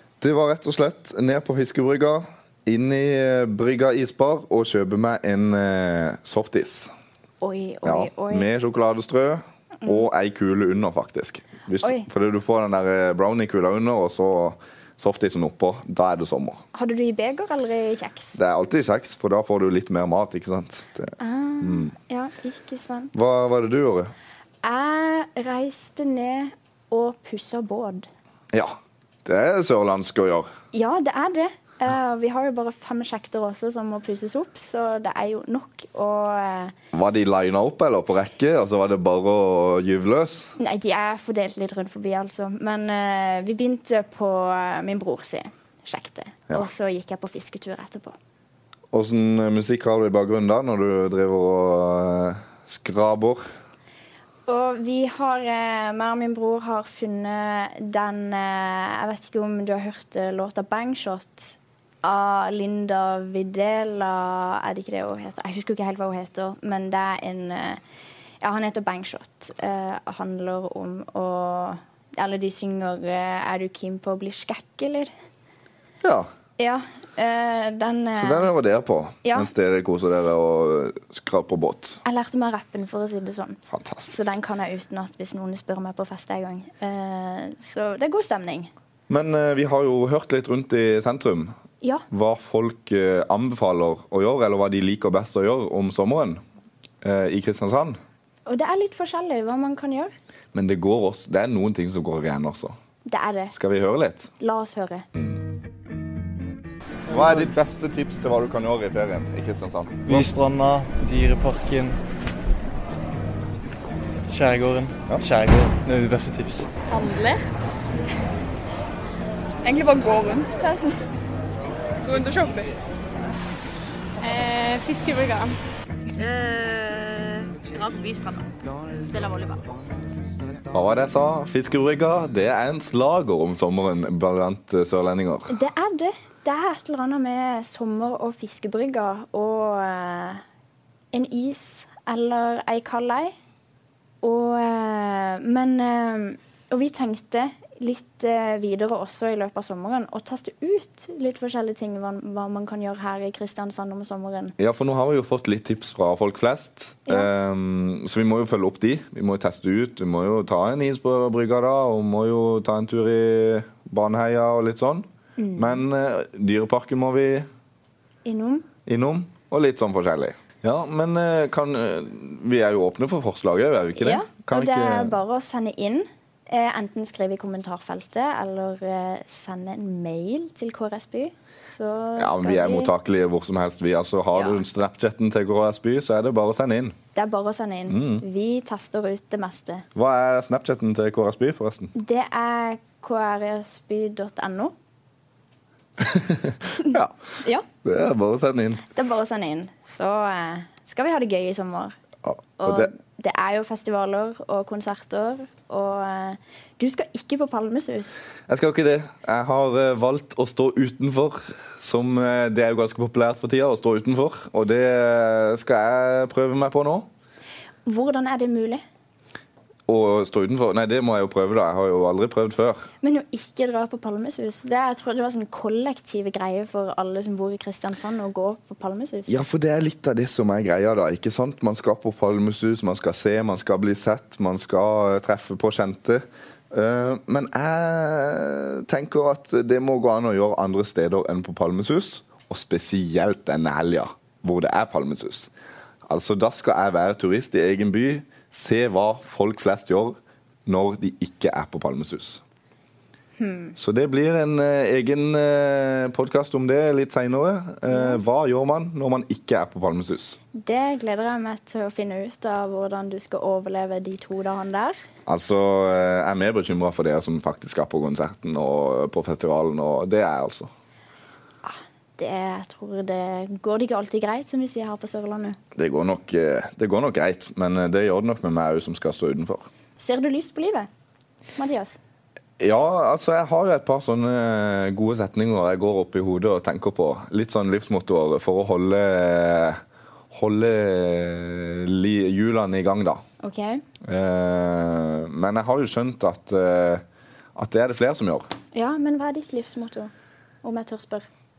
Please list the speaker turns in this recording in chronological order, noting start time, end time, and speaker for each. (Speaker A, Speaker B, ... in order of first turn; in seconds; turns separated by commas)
Speaker A: 0.2-6.9, Speaker B: 7.4-8.5, Speaker A: 7.8-16.6, Speaker B: 9.8-10.1, Speaker B: 11.8-12.1, Speaker B: 16.7-18.4, Speaker A: 18.4-21.9, Speaker B: 21.2-23.1, Speaker A: 23.1-24.1, Speaker B: 24.6-28.1, Speaker A: 28.5-30.5, Speaker B: 30.7-36.7, Speaker A: 36.9-40.5, Speaker B: 40.6-48.2, Speaker A: 48.9-53.5, Speaker B: 54.5-67.8, Speaker B: 68.4-75.1, Speaker A: 76.0-76.3, Speaker B: 76.6-78.5, Speaker A: 78.2-82.0, Speaker B: 79.2-79.5, Speaker B: 82.0-88.7, Speaker A: 83.7-84.2, Speaker A: 89.1-91.5, Speaker A: 92.1-96.4, Speaker A: 97.0-98.0, Speaker B: 98.5-100.1, Speaker A: 100.5-102.8, Speaker B: 103.1-103.5, Speaker A: 103.5-104.3, Speaker B: 104.4-105.1, Speaker A: 105.2-105.4, Speaker A: 107.1-110.3, Speaker C: 110.1-112.0, Speaker C: 114.3-116.7, Speaker D: 116.9-117.4, Speaker E: 119.7-120.9, Speaker E: 122.0-122.7, Speaker D: 124.4-125.0, Speaker D: 126.2-128.4, Speaker E: 129.1-129.5, Speaker A: 130.7-135.6, Speaker B: 135.5-140.4, Speaker B: 141.1-143.3, Speaker B: 144.2-154.6, Speaker A: 154.6-167.5, Speaker B: 165.4-165.8, Speaker B: 168.2-168.7, Speaker A: 168.9-175.2, Speaker B: 174.0-182.9, Speaker A: 182.2-187.0, Speaker B: 184.3-184.6, Speaker B: 187.2-189.8, Speaker A: 187.9-188.2, Speaker A: 189.9-191.9, Speaker B: 192.0-194.7, Speaker A: 196.0-197.2, Speaker A: 197.8-198.8, Speaker B: 198.9-202.0, Speaker A: 202.2-202.9, Speaker B: 202.6-208.2, Speaker A: 208.5-217.1, Speaker B: 217.9-218.8, Speaker A: 219.9-222.9, Speaker B: 223.0-229.4, Speaker A: 229.3-245.5, Speaker A: 246.1-252.4, Speaker B: 253.4-253.8, Speaker A: 253.8-260.4, Speaker B: 257.9-258.2, Speaker B: 260.6-265.0, Speaker A: 265.3-270.7, Speaker B: 271.6-275.6, Speaker A: 275.8-279.7, Speaker B: 280.0-280.9, Speaker B: 281.6-282.0, Speaker A: 282.6-289.8, Speaker A: 290.3-293.2, Speaker B: 293.4-293.8, Speaker A: 294.0-297.0, Speaker A: 297.6-298.5, Speaker B: 298.7-300.1, Speaker B: 300.6-301.3